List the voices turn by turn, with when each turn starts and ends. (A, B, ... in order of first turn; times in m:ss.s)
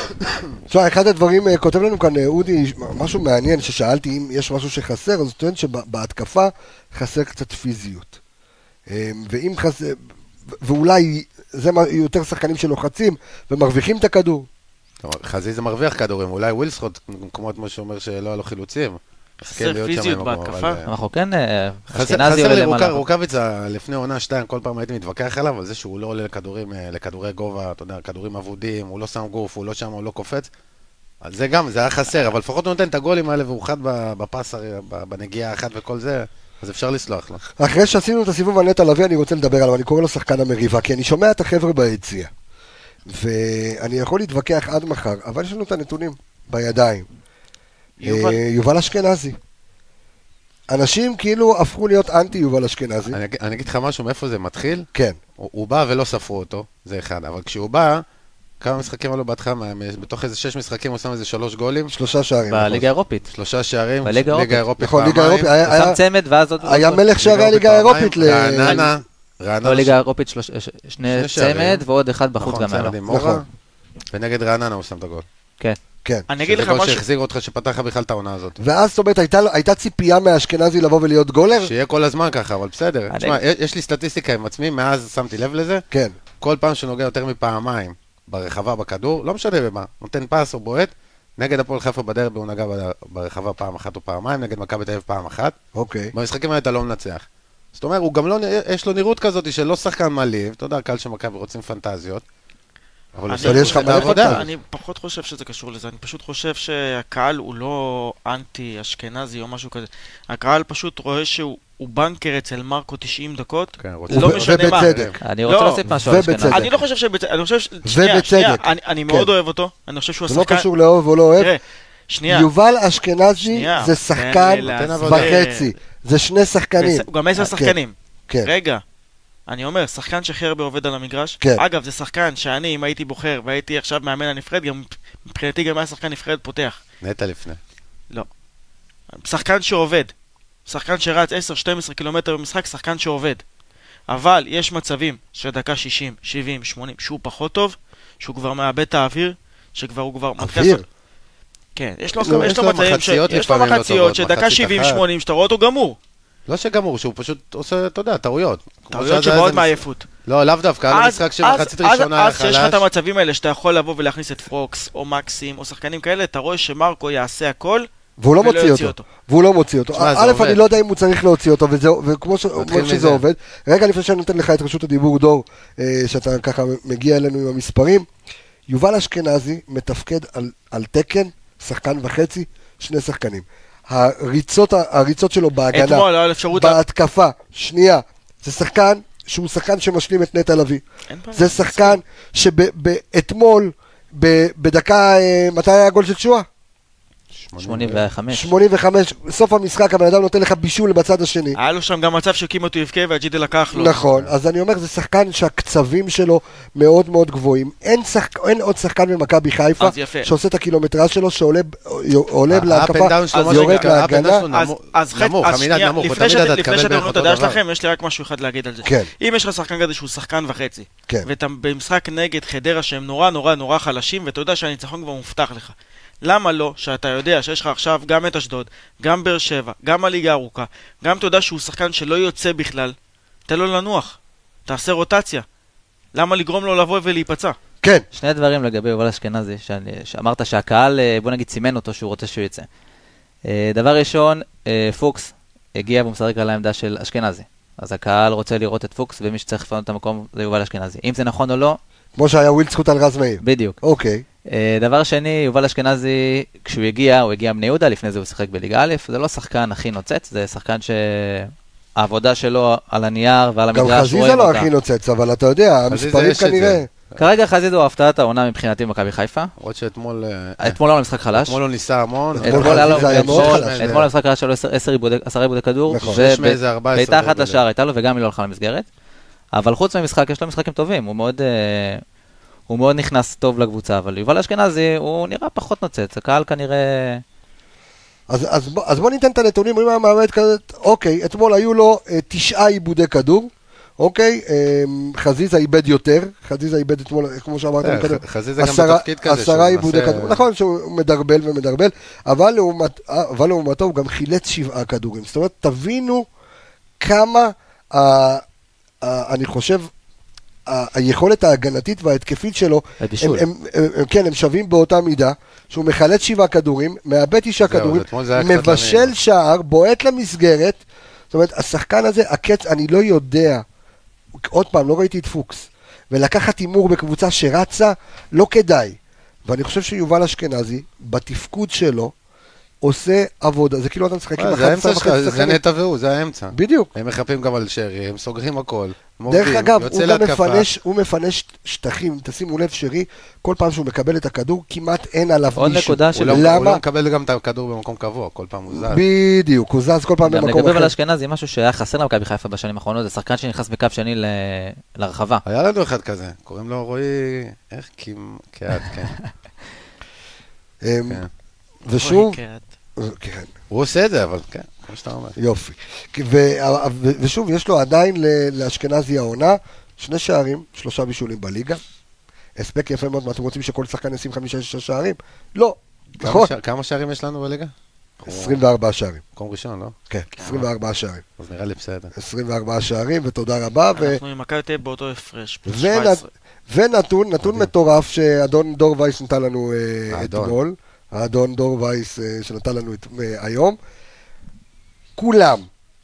0:00.7-0:08.2 A
0:08.9-0:10.0 A
0:10.5-0:14.5 A
0:15.0-0:20.9 B
0:19.5-0:20.8 C
0:20.9-0:23.0 D
0:21.9-0:30.5 B
0:31.2-0:37.4 B
0:37.6-0:42.3 A
0:43.1-0:47.1 A
0:48.0-0:48.4 C
0:48.0-0:49.4 A
0:50.7-0:53.2 A
0:53.1-0:54.9 B
0:55.4-0:58.0 B
0:58.6-1:01.9 B
1:01.9-1:02.9 A
1:02.5-1:03.3 D
1:03.3-1:05.5 B
1:04.0-1:04.6 D
1:04.8-1:06.0 A
1:05.6-1:07.2 D
1:06.6-1:08.9 A
1:07.2-1:10.0 B
1:09.6-1:13.0 D
1:11.1-1:11.8 B
1:12.4-1:13.5 B
1:13.1-1:13.4 A
1:14.1-1:15.2 B
1:16.3-1:17.0 C
1:16.4-1:18.6 B
1:18.6-1:21.7 A
1:21.6-1:25.8 B
1:23.1-1:23.4 D
1:25.9-1:26.2 A
1:26.4-1:35.6 B
1:35.8-1:36.1 A
1:36.1-1:42.2 B
1:43.2-1:44.4 B
1:43.3-1:55.8 C
1:43.4-1:44.5 A
1:53.8-1:55.2 B
1:54.1-1:55.2 A
1:55.2-1:56.7 D
1:55.8-1:56.7 A
1:56.5-2:00.7 C
1:57.8-1:59.3 A
2:00.3-2:01.5 A
2:01.4-2:02.5 C
2:02.3-2:07.8 A
2:03.4-2:05.7 C
2:04.6-2:05.4 B
2:06.8-2:08.8 C
2:09.5-2:16.8 C
2:17.0-2:17.6 B
2:19.2-2:20.1 C
2:20.7-2:23.4 C
2:24.1-2:30.8 C
2:30.4-2:30.8 A
2:31.8-2:36.0 C
2:32.2-2:35.0 B
2:36.5-2:42.8 B
2:38.9-2:40.1 C
2:40.9-2:49.1 C
2:48.2-2:58.1 A
2:49.9-2:50.6 B
2:52.6-2:53.2 B
2:58.7-3:16.5 A
3:05.7-3:06.8 C
3:11.1-3:12.0 C
3:17.4-3:18.1 B
3:17.6-3:18.5 D
3:18.3-3:21.6 A
3:21.6-3:24.0 C
3:23.7-3:34.5 A
3:29.8-3:30.3 C
3:32.5-3:37.6 B
3:33.3-3:53.0 C
3:38.8-3:39.1 A
3:53.5-3:55.4 C
3:56.1-3:57.6 C
3:58.1-4:02.7 D
4:03.5-4:11.8 D
4:12.2-4:14.2 A
4:13.4-4:13.8 D
4:14.5-4:24.7 D
4:23.7-4:26.9 A
4:25.9-4:27.2 B
4:27.2-4:29.5 D
4:29.6-4:30.8 B
4:30.6-4:31.6 D
4:31.3-4:34.1 B
4:32.4-4:38.9 D
4:32.4-4:34.1 A
4:35.9-4:36.2 A
4:36.0-4:37.6 B
4:39.6-4:42.0 D
4:42.7-4:47.2 D
4:48.3-5:06.3 A
4:57.8-5:00.4 B
5:07.0-5:08.4 A
5:09.0-5:09.9 A
5:10.7-5:23.6 A
5:13.0-5:13.5 D
5:17.6-5:19.1 B
5:24.4-5:32.1 A
5:32.8-5:35.6 A
5:34.4-5:40.7 B
5:36.5-5:36.9 A
5:39.3-5:46.8 A
5:45.5-5:46.6 D
5:46.2-5:49.0 B
5:48.7-5:50.9 A
5:50.2-5:55.4 D
5:55.4-5:59.2 B
6:00.8-6:01.2 A
6:01.8-6:02.4 A
6:02.0-6:02.6 C
6:03.0-6:03.5 A
6:03.7-6:05.4 B
6:05.4-6:11.8 A
6:12.6-6:16.5 A
6:16.2-6:18.6 B
6:18.2-6:19.2 A
6:19.4-6:20.7 B
6:20.1-6:21.2 A
6:20.4-6:20.6 C
6:21.4-6:22.1 B
6:22.1-6:24.2 A
6:23.9-6:26.3 C
6:25.7-6:33.8 A
6:27.4-6:27.7 B
6:30.1-6:30.6 B
6:35.2-6:35.7 A